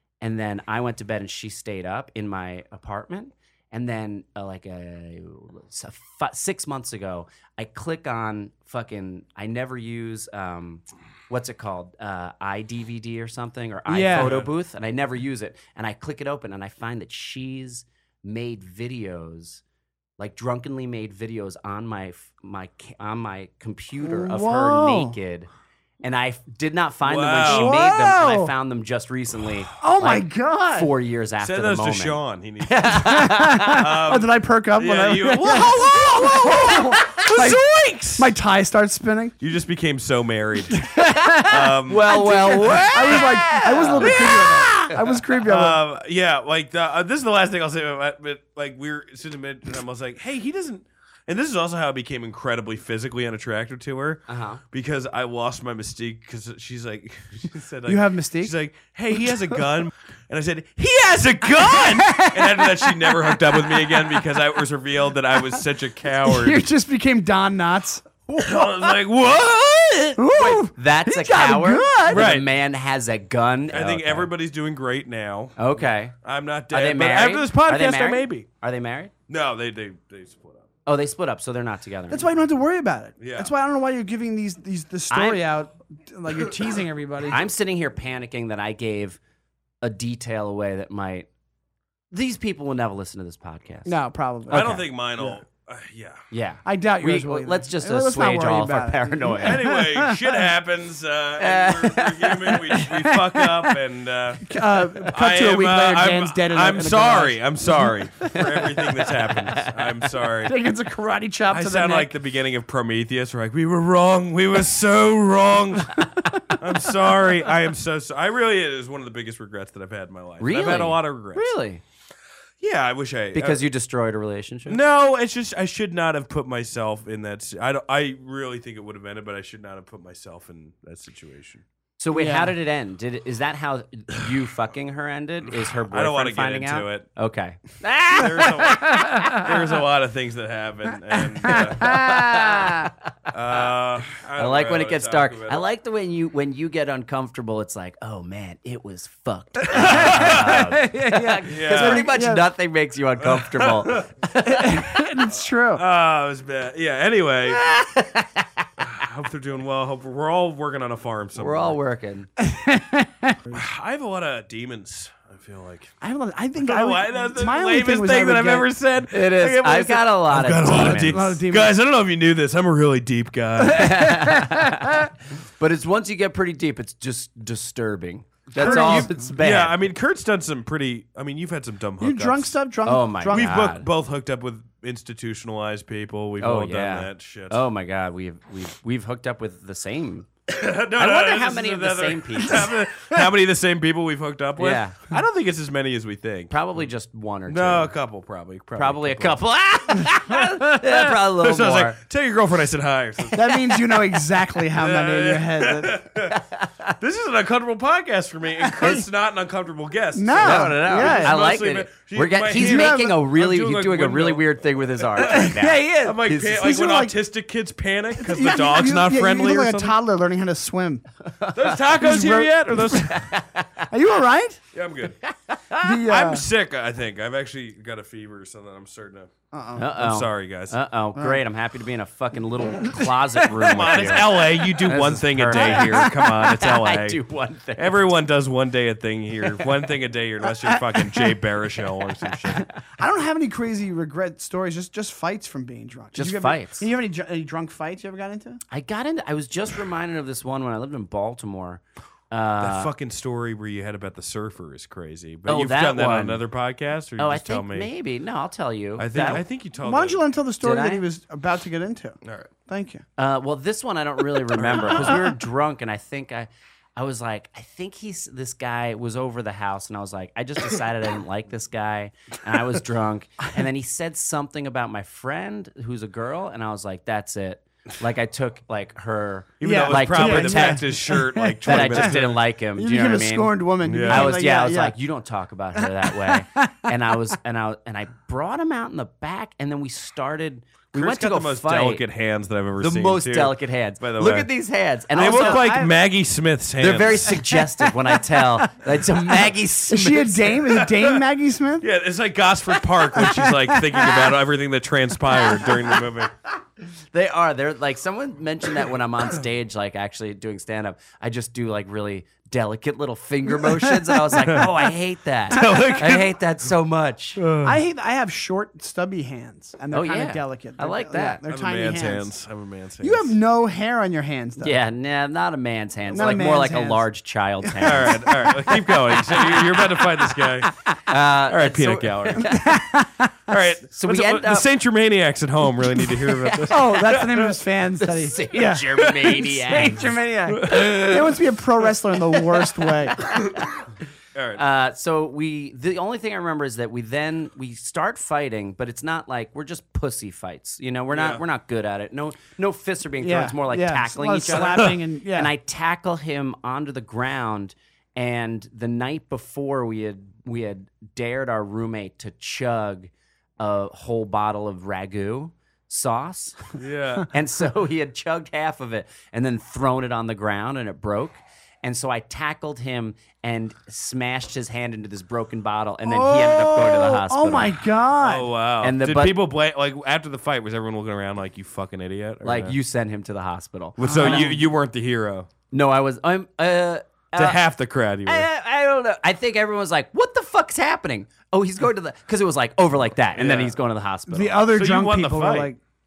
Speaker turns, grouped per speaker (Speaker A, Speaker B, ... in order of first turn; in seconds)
Speaker A: 0.2-19.6, 20.2-25.5, 26.0-33.9, 41.4-44.9, 54.3-54.6, 70.3-74.3, 75.6-76.1, 76.7-79.1, 80.8-82.3, 85.1-85.4, 87.3-89.2, 89.8-91.3, 92.1-94.8, 96.3-99.7, 101.4-102.7, 108.3-109.9, 120.4-121.8, 123.3-124.8, 132.0-139.4, 141.5-143.0, 144.4-154.8, 157.4-158.7, 161.3-162.3, 169.1-171.3, 173.7-179.8, 182.8-183.9, 186.4-190.3, 190.9-192.7, 194.6-195.1, 196.5-197.9, 198.7-202.0, 206.3-207.0, 210.4-216.6, 221.3-221.8, 222.9-223.9, 225.2-225.8, 229.8-238.1, 242.2-242.7, 246.1-246.8, 248.7-252.9, 255.4-256.4, 257.2-259.4, 260.6-261.0, 263.2-280.9, 281.6-292.0, 292.8-295.8, 296.8-300.5, 307.1-317.4, 319.9-321.4, 324.6-332.7, 333.9-334.6, 336.2-336.9, 338.0-340.2, 343.2-343.6, 344.5-366.7, 367.3-377.8, 378.8-379.4, 382.4-384.6, 385.7-387.6, 388.2-394.7
Speaker B: 13.9-14.3, 24.0-25.2, 27.4-28.5, 29.8-30.9, 33.0-39.3, 40.8-45.8, 57.9-58.5, 59.2-59.6, 61.5-64.2, 65.3-68.0, 70.2-72.3, 82.1-87.5, 93.8-95.4, 96.6-100.4, 102.8-103.7, 104.4-108.6, 110.4-112.1, 116.0-116.6, 132.1-132.5, 139.1-139.4, 141.3-142.9, 149.7-152.4, 154.4-155.8, 162.4-163.6, 166.0-168.7, 170.7-171.7, 173.8-174.8, 178.6-179.2, 182.0-183.7, 203.3-206.0, 210.1-211.4, 212.5-213.2, 215.2-217.1, 218.2-221.0, 221.9-223.1, 223.9-224.6, 225.8-226.4, 229.5-229.9, 231.1-231.4, 235.6-236.1, 240.7-241.2, 242.8-248.6, 259.1-263.0, 279.6-282.2, 282.7-285.0, 285.8-286.9, 295.2-295.9, 299.9-301.8, 303.1-304.3, 317.6-322.3, 323.0-324.8, 326.1-327.1, 332.4-333.3, 336.6-343.1, 353.2-355.5, 376.0-378.5, 384.0-384.6, 394.3-395.8
Speaker C: 14.1-14.5, 27.0-27.8, 31.4-38.3, 39.4-66.7, 68.4-70.2, 72.1-72.5, 73.7-78.5, 79.3-80.7, 83.2-83.5, 94.5-96.2, 99.2-104.5, 105.0-110.5, 111.5-121.5, 122.6-123.6, 124.7-131.6, 135.6-137.1, 138.1-142.0, 143.3-145.6, 149.7-150.7, 151.4-152.1, 153.2-154.1, 155.3-157.7, 158.8-161.8, 163.5-165.9, 166.6-174.4, 178.6-182.5, 183.2-187.6, 190.5-196.5, 197.5-199.4, 200.0-204.0, 204.8-206.4, 207.0-219.9, 221.5-223.3, 224.7-225.2, 225.9-229.3, 229.9-230.8, 233.5-237.2, 237.8-242.7, 252.6-257.9, 259.0-260.2, 262.2-262.5, 264.5-265.3, 279.6-282.4, 283.8-284.4, 290.9-294.5, 295.1-297.6, 300.7-301.2, 301.8-306.3, 314.4-314.7, 315.5-316.3, 317.4-317.8, 321.5-323.3, 327.8-330.7, 331.3-332.5, 333.5-337.6, 340.5-341.3, 344.3-344.6, 351.1-351.4, 354.6-354.9, 366.7-367.3, 378.1-382.8, 384.0-385.5, 387.4-388.5, 393.3-393.8, 394.7-395.7